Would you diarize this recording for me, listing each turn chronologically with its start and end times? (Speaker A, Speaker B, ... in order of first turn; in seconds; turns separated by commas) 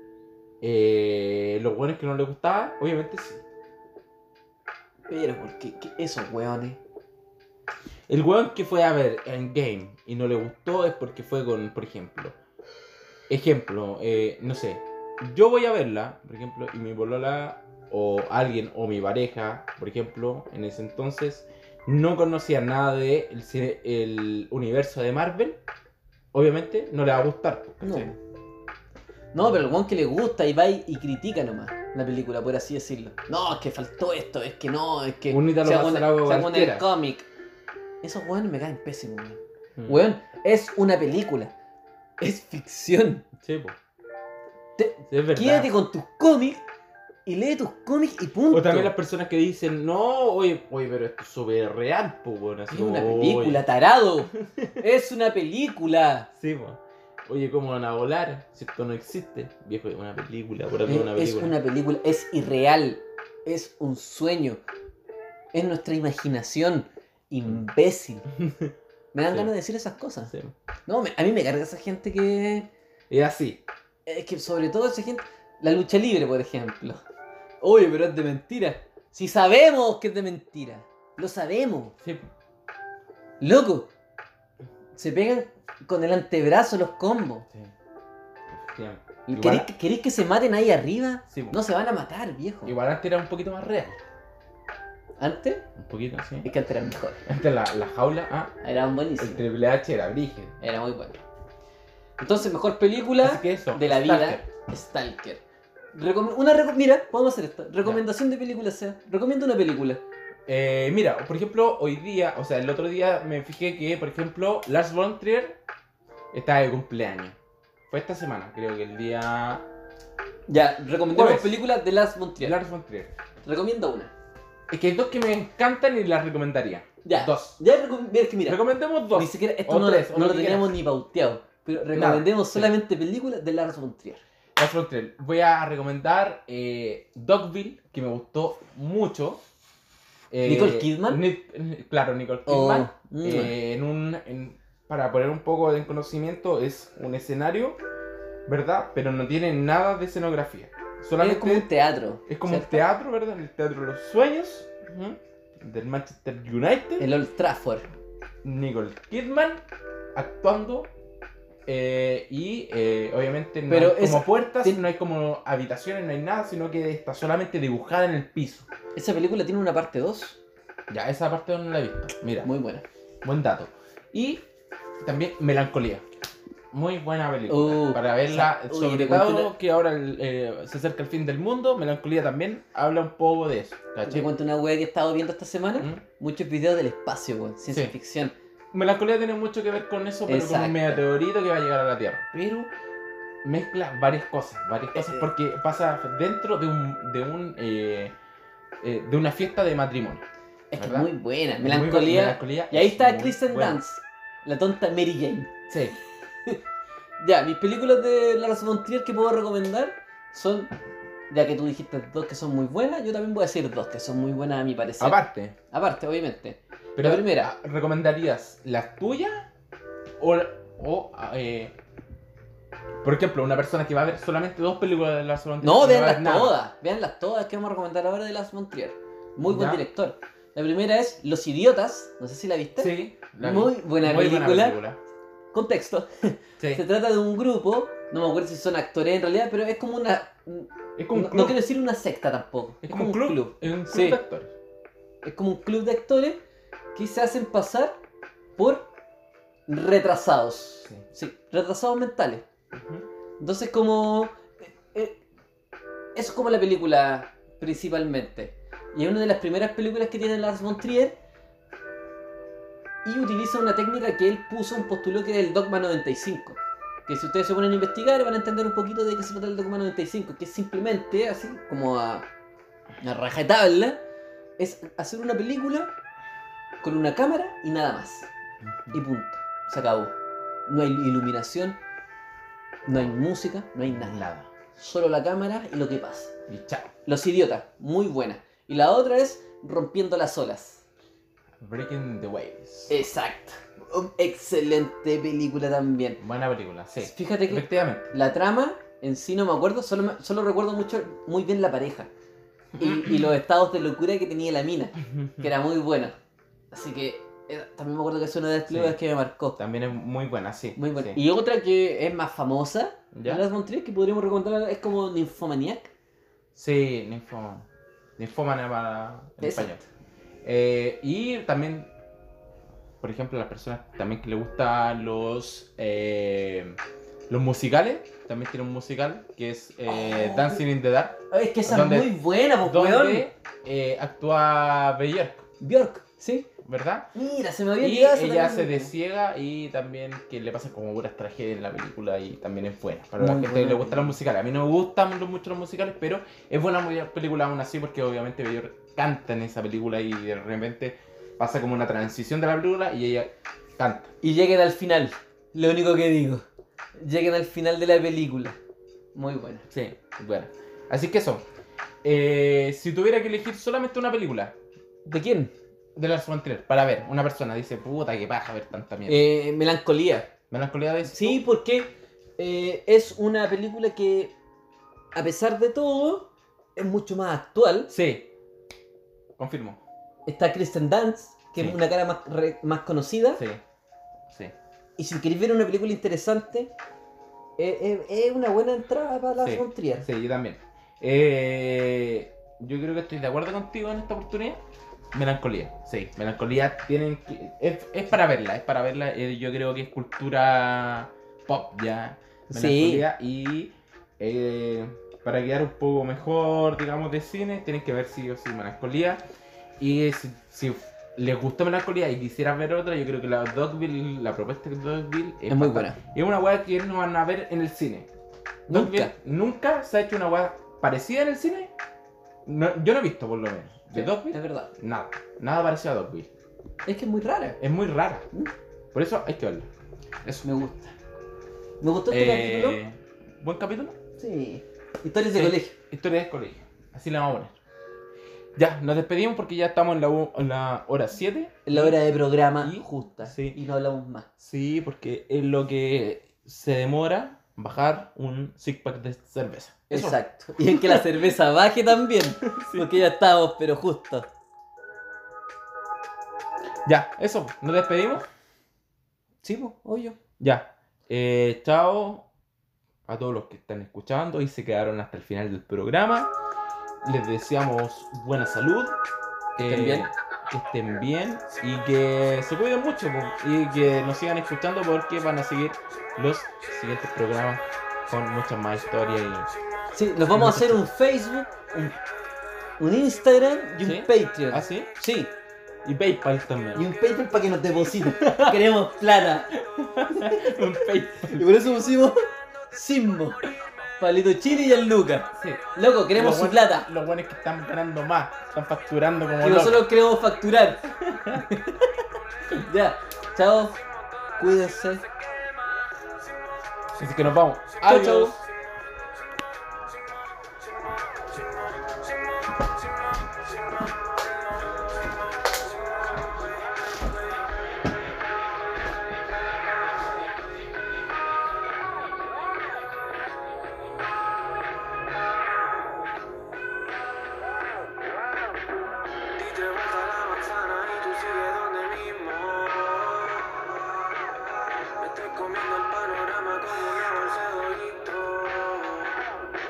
Speaker A: 0.6-3.4, Speaker B: 5.1-6.8, Speaker A: 8.1-12.4, Speaker A: 13.3-25.6, Speaker A: 26.3-28.1, Speaker B: 27.8-28.2, Speaker B: 29.3-37.3, Speaker A: 35.3-36.9, Speaker B: 38.0-41.5, Speaker A: 39.8-40.1, Speaker B: 42.2-43.3, Speaker A: 43.4-43.8, Speaker B: 44.8-46.6, Speaker A: 45.1-45.7, Speaker B: 47.3-48.9, Speaker A: 48.5-53.6, Speaker B: 52.7-56.3, Speaker A: 54.4-54.8, Speaker A: 56.3-61.5, Speaker B: 60.9-64.6, Speaker B: 65.5-68.3, Speaker A: 68.4-68.7, Speaker B: 69.1-70.3, Speaker A: 70.3-70.5, Speaker B: 70.9-72.7, Speaker A: 73.1-73.6, Speaker B: 74.0-77.0, Speaker B: 77.6-82.0, Speaker A: 82.0-82.3, Speaker B: 83.4-83.9, Speaker B: 84.9-87.5, Speaker A: 88.5-89.7, Speaker B: 89.2-92.7, Speaker A: 91.3-91.6, Speaker A: 92.7-94.0, Speaker B: 95.2-95.7, Speaker A: 95.8-96.5, Speaker B: 96.4-97.2, Speaker A: 97.3-98.5, Speaker B: 98.6-99.4, Speaker A: 99.2-100.6, Speaker B: 100.6-101.2, Speaker B: 102.2-105.4, Speaker A: 103.2-104.4, Speaker B: 105.9-110.0, Speaker A: 110.5-115.6, Speaker A: 116.3-117.4, Speaker A: 117.9-119.7, Speaker B: 120.5-122.5, Speaker A: 121.1-121.6, Speaker A: 122.4-123.1, Speaker B: 123.4-124.1, Speaker A: 124.7-127.6, Speaker B: 127.0-134.2, Speaker A: 128.4-130.7, Speaker A: 131.9-132.7, Speaker A: 134.6-139.4, Speaker A: 140.3-147.8, Speaker B: 140.4-141.2, Speaker B: 142.4-143.6, Speaker A: 148.4-151.7, Speaker B: 151.2-152.8, Speaker A: 152.3-157.1, Speaker B: 157.0-157.9, Speaker A: 158.4-159.6, Speaker A: 160.1-160.9, Speaker A: 161.7-168.7, Speaker B: 163.7-164.8, Speaker B: 168.9-170.4, Speaker A: 170.9-172.5, Speaker B: 172.4-172.8, Speaker A: 173.2-174.4, Speaker A: 175.0-176.0, Speaker A: 176.7-184.3, Speaker B: 177.5-179.5, Speaker B: 184.1-188.3, Speaker A: 187.7-187.9, Speaker A: 188.7-192.7, Speaker B: 190.3-191.0, Speaker A: 193.4-198.1, Speaker B: 195.0-195.3, Speaker A: 198.8-200.2, Speaker B: 200.7-205.6, Speaker A: 200.8-203.8, Speaker A: 205.7-205.9, Speaker B: 207.2-210.7, Speaker B: 211.3-217.5, Speaker A: 215.0-215.6, Speaker A: 216.9-219.5, Speaker A: 220.2-221.8, Speaker A: 223.0-226.6, Speaker B: 225.6-234.8, Speaker A: 229.4-229.8, Speaker A: 232.8-235.0, Speaker B: 235.5-244.2, Speaker A: 236.6-236.8, Speaker A: 241.0-241.6, Speaker A: 242.8-244.5, Speaker B: 245.2-246.4, Speaker B: 246.9-248.0, Speaker B: 248.6-248.9, Speaker B: 249.7-252.4, Speaker A: 252.7-253.1, Speaker B: 253.4-255.2, Speaker B: 256.1-261.2, Speaker B: 263.1-272.3, Speaker B: 273.0-274.0, Speaker B: 274.6-275.9, Speaker B: 276.8-278.3, Speaker A: 278.6-279.0, Speaker B: 278.9-280.1, Speaker B: 280.7-281.8, Speaker B: 282.9-286.4, Speaker A: 283.8-284.5, Speaker A: 286.5-286.9, Speaker B: 287.1-290.8, Speaker A: 291.6-292.9, Speaker B: 292.9-296.2, Speaker A: 296.2-298.1, Speaker B: 297.0-302.1, Speaker A: 302.7-303.3, Speaker B: 302.8-306.1, Speaker A: 305.1-305.5, Speaker B: 306.7-309.6, Speaker A: 308.7-309.0, Speaker A: 309.6-311.2, Speaker B: 310.8-315.9, Speaker A: 313.1-313.4, Speaker A: 316.6-317.7, Speaker A: 318.2-319.8, Speaker B: 319.4-319.7, Speaker A: 320.4-321.9, Speaker A: 323.0-335.4, Speaker B: 329.9-330.6, Speaker B: 331.3-333.3, Speaker B: 335.6-336.5, Speaker A: 336.6-337.1, Speaker B: 337.1-338.9, Speaker A: 337.8-354.1, Speaker B: 343.2-344.2, Speaker B: 354.2-356.4, Speaker B: 357.0-358.6, Speaker B: 359.1-359.6, Speaker A: 359.7-361.4, Speaker A: 362.0-364.6, Speaker B: 365.1-365.5, Speaker A: 365.9-369.3, Speaker B: 369.1-370.3, Speaker A: 370.5-371.4, Speaker B: 371.1-374.3, Speaker B: 375.1-377.9, Speaker A: 377.9-378.3, Speaker A: 379.4-379.8, Speaker B: 380.3-383.4, Speaker A: 383.4-383.6, Speaker B: 385.0-386.7, Speaker B: 387.6-390.1, Speaker A: 389.4-394.6, Speaker A: 395.1-409.2, Speaker B: 402.5-403.1, Speaker A: 409.8-418.1, Speaker B: 415.5-416.0, Speaker B: 418.7-419.1, Speaker A: 418.7-421.7, Speaker A: 422.4-426.3, Speaker B: 423.9-424.7, Speaker B: 426.9-427.6, Speaker A: 427.6-428.3, Speaker A: 428.9-429.7, Speaker B: 430.2-430.9, Speaker B: 431.8-432.8, Speaker A: 432.1-434.0, Speaker B: 434.2-435.7, Speaker A: 435.3-437.5, Speaker A: 438.6-442.0, Speaker B: 441.6-444.3, Speaker A: 442.6-443.6, Speaker A: 444.4-451.2, Speaker B: 449.9-454.3, Speaker A: 452.4-453.0, Speaker A: 456.9-458.3, Speaker B: 459.4-460.2, Speaker A: 460.4-462.3, Speaker A: 463.1-466.3, Speaker A: 467.0-469.0, Speaker A: 469.6-479.5, Speaker B: 469.6-470.1, Speaker B: 479.9-482.0, Speaker A: 480.3-480.8, Speaker B: 482.8-485.3, Speaker A: 483.8-484.9, Speaker A: 485.8-486.9, Speaker B: 486.7-489.5, Speaker A: 488.2-488.7, Speaker A: 489.6-491.5, Speaker B: 490.1-490.6, Speaker B: 491.3-496.9, Speaker A: 495.3-499.9, Speaker B: 499.4-501.9, Speaker A: 501.0-501.4, Speaker B: 502.5-503.8, Speaker C: 504.3-506.1, Speaker B: 504.4-505.0, Speaker A: 506.9-508.4, Speaker B: 507.8-508.4, Speaker C: 511.1-514.2, Speaker C: 529.4-533.6, Speaker C: 535.0-539.2